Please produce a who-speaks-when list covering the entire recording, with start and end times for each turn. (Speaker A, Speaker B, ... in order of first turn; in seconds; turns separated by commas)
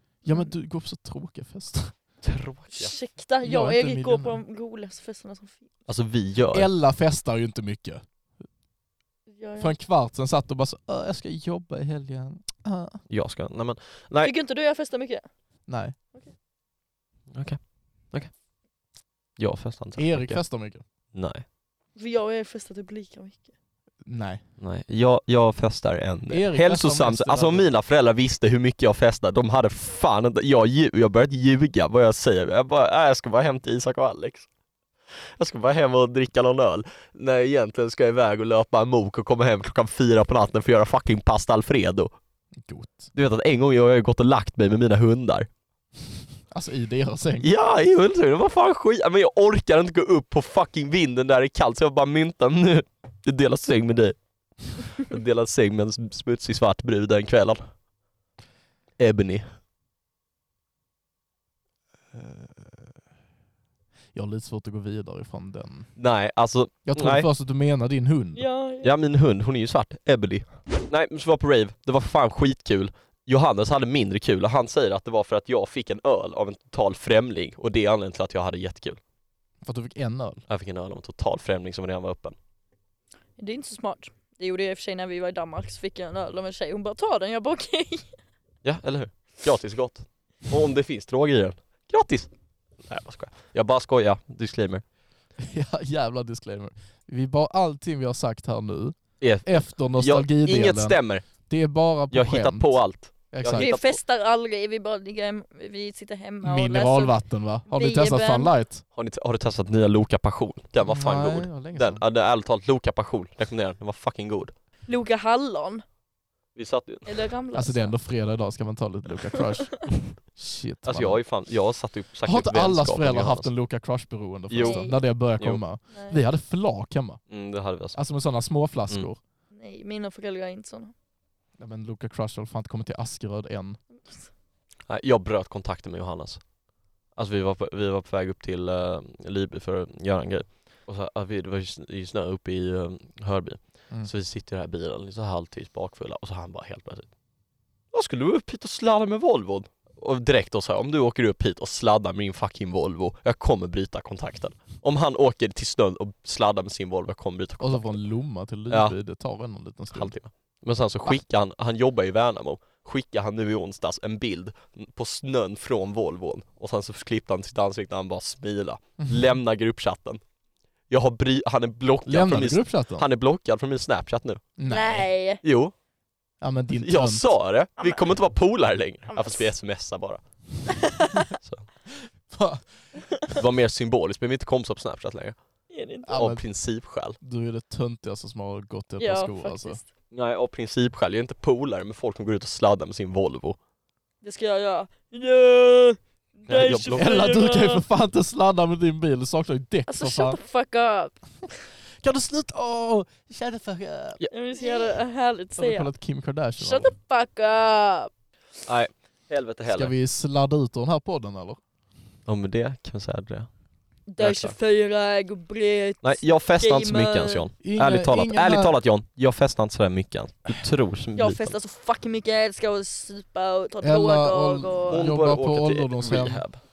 Speaker A: 0.2-2.0, Speaker B: 0.3-0.5, Speaker C: 2.2-3.0, Speaker B: 2.7-5.7, Speaker A: 3.4-4.4, Speaker C: 5.9-6.7, Speaker A: 6.5-8.0, Speaker B: 9.3-9.7, Speaker A: 9.6-13.0, Speaker C: 13.1-14.3, Speaker B: 14.2-15.3, Speaker A: 15.7-16.0, Speaker C: 17.3-17.6, Speaker C: 19.4-20.4, Speaker A: 20.0-20.8, Speaker C: 21.1-21.4, Speaker B: 22.0-23.5, Speaker A: 24.1-24.4, Speaker C: 24.6-34.5, Speaker A: 26.3-27.7, Speaker C: 35.4-42.1, Speaker A: 42.6-43.1, Speaker C: 43.1-45.5, Speaker A: 46.5-47.5, Speaker C: 47.4-54.2, Speaker C: 55.0-57.7, Speaker C: 59.0-59.5, Speaker A: 62.1-62.9, Speaker A: 64.1-65.9, Speaker C: 66.0-67.3, Speaker A: 66.9-68.4, Speaker B: 68.4-68.9, Speaker C: 68.8-79.0, Speaker A: 79.6-80.4, Speaker C: 80.5-82.4, Speaker B: 83.4-88.1, Speaker C: 88.6-92.3, Speaker C: 92.8-94.8, Speaker A: 95.4-103.7, Speaker C: 99.2-101.2, Speaker C: 102.1-104.0, Speaker B: 103.5-107.2, Speaker A: 106.4-108.9, Speaker B: 107.7-108.5, Speaker C: 109.0-114.5, Speaker A: 110.8-112.0, Speaker B: 114.9-115.8, Speaker C: 116.6-117.1, Speaker B: 117.1-117.9, Speaker A: 117.5-121.2, Speaker C: 120.9-123.5, Speaker A: 122.2-127.2, Speaker C: 124.5-125.6, Speaker B: 124.6-125.0, Speaker B: 125.9-126.2, Speaker C: 127.3-128.0, Speaker A: 127.9-129.2, Speaker B: 129.5-130.9, Speaker A: 131.6-133.8, Speaker C: 134.9-136.4, Speaker C: 137.2-147.1, Speaker C: 147.9-157.9, Speaker A: 157.6-160.2, Speaker C: 159.9-170.2, Speaker A: 169.0-169.3, Speaker C: 170.9-174.4, Speaker A: 172.1-173.1, Speaker A: 174.6-175.1, Speaker B: 174.7-175.4, Speaker C: 175.4-175.7, Speaker A: 176.4-177.3, Speaker C: 176.8-180.2, Speaker B: 179.1-179.5, Speaker B: 180.7-181.3, Speaker C: 181.4-181.7, Speaker A: 182.3-182.7, Speaker C: 183.3-185.4, Speaker B: 185.7-186.2, Speaker A: 186.1-186.4, Speaker C: 186.1-187.2, Speaker A: 187.2-189.8, Speaker B: 189.0-189.9, Speaker C: 190.1-193.6, Speaker B: 194.2-197.8, Speaker C: 196.5-197.2, Speaker A: 197.0-200.4, Speaker B: 199.9-201.2, Speaker A: 202.0-204.7, Speaker B: 204.3-205.9, Speaker A: 205.6-206.9, Speaker B: 206.6-208.1, Speaker C: 208.7-209.9, Speaker A: 209.7-211.6, Speaker C: 212.3-213.5, Speaker B: 214.1-217.4, Speaker C: 214.2-214.6, Speaker C: 216.0-221.5, Speaker A: 217.6-218.7, Speaker B: 221.2-225.0, Speaker A: 223.8-226.4, Speaker C: 224.9-226.6